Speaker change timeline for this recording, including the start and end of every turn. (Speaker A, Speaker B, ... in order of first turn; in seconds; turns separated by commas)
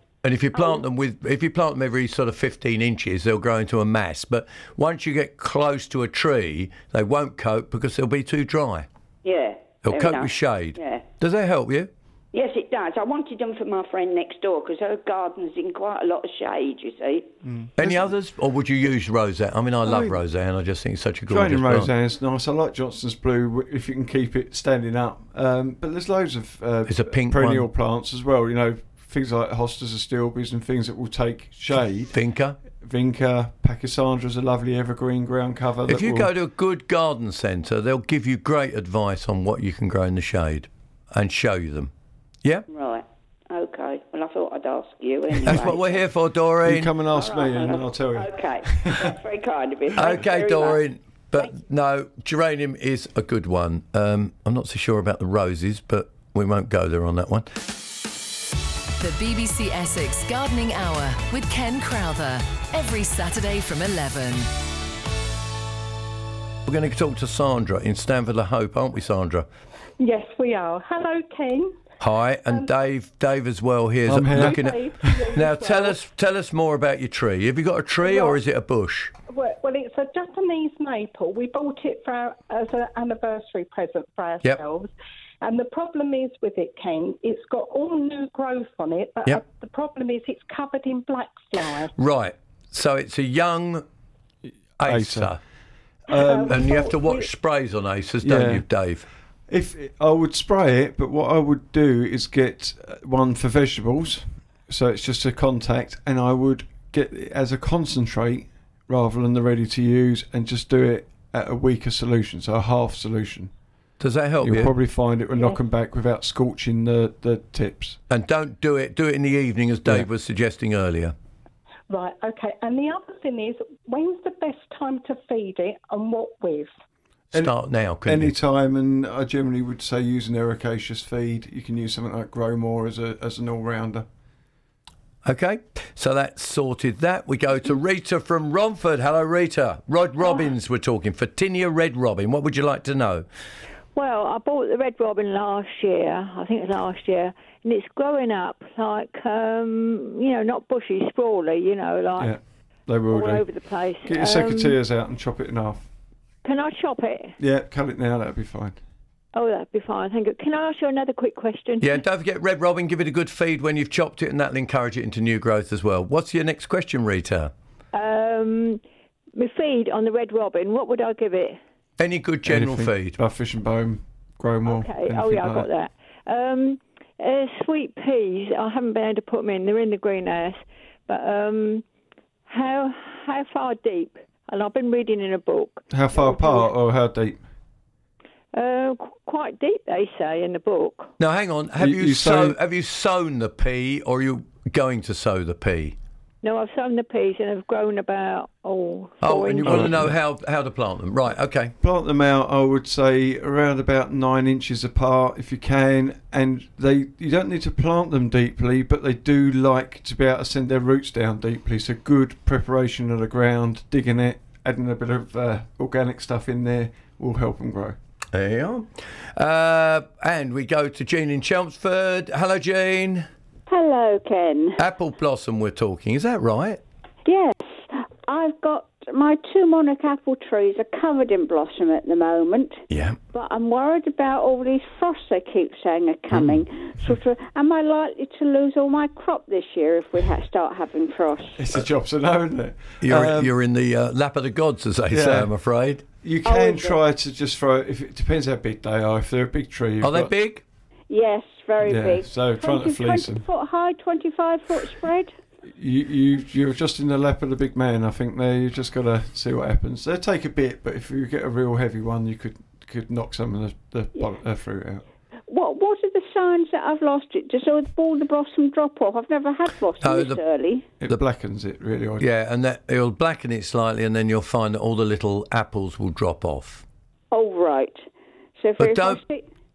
Speaker A: 0.2-8.9, Speaker B: 0.5-0.8, Speaker B: 9.2-11.0, Speaker A: 9.8-11.9, Speaker B: 12.3-17.3, Speaker C: 17.4-18.1, Speaker A: 17.8-21.9, Speaker C: 19.9-20.2, Speaker C: 21.3-32.1, Speaker A: 26.9-27.7, Speaker A: 32.1-32.6, Speaker C: 32.7-36.3, Speaker A: 35.9-41.9, Speaker B: 42.7-46.0, Speaker A: 45.5-46.9, Speaker C: 46.6-49.1, Speaker B: 47.1-50.8, Speaker A: 50.0-57.5, Speaker D: 59.0-64.5, Speaker A: 66.7-69.5, Speaker E: 70.0-71.8, Speaker A: 72.0-79.1, Speaker C: 74.1-75.4, Speaker E: 74.3-76.0, Speaker E: 78.0-78.4, Speaker E: 79.3-91.9, Speaker A: 92.0-93.8, Speaker A: 94.8-95.4, Speaker C: 94.8-95.3, Speaker C: 96.1-96.8, Speaker E: 96.2-97.3, Speaker A: 96.3-99.1, Speaker C: 98.2-98.7, Speaker C: 99.5-113.5, Speaker A: 114.0-114.7, Speaker C: 114.4-118.0, Speaker A: 118.1-121.2, Speaker E: 121.9-126.7, Speaker A: 127.3-128.3, Speaker C: 127.3-134.1, Speaker A: 135.2-143.3, Speaker F: 143.9-152.3, Speaker C: 152.2-153.5, Speaker F: 153.1-154.8, Speaker C: 154.0-155.9, Speaker F: 156.4-157.4, Speaker C: 157.4-158.8, Speaker F: 159.3-162.0, Speaker A: 161.8-167.5, Speaker F: 167.9-168.8, Speaker F: 169.3-171.6, Speaker A: 172.0-173.2, Speaker C: 172.5-175.7, Speaker F: 174.7-181.8, Speaker F: 182.5-186.7, Speaker C: 185.9-187.4, Speaker F: 188.5-191.1, Speaker A: 191.2-196.0, Speaker C: 191.8-192.6, Speaker F: 196.4-200.0, Speaker A: 199.2-201.7, Speaker C: 199.7-200.1, Speaker C: 201.8-218.0, Speaker A: 218.3-223.3, Speaker G: 223.7-224.8, Speaker A: 224.8-226.8, Speaker G: 227.3-227.6, Speaker G: 228.3-232.8, Speaker A: 232.9-233.2, Speaker G: 233.3-241.6, Speaker A: 236.3-236.6, Speaker C: 241.6-243.5, Speaker A: 243.0-246.1, Speaker C: 245.1-245.5, Speaker C: 246.2-250.3, Speaker G: 246.5-247.0, Speaker A: 250.0-250.6, Speaker G: 251.1-255.3, Speaker C: 251.8-253.5, Speaker C: 255.7-265.0, Speaker G: 265.5-270.9, Speaker A: 270.0-270.4, Speaker C: 271.0-272.3, Speaker A: 272.2-276.9, Speaker G: 277.3-278.1, Speaker G: 278.6-279.4, Speaker A: 278.8-279.2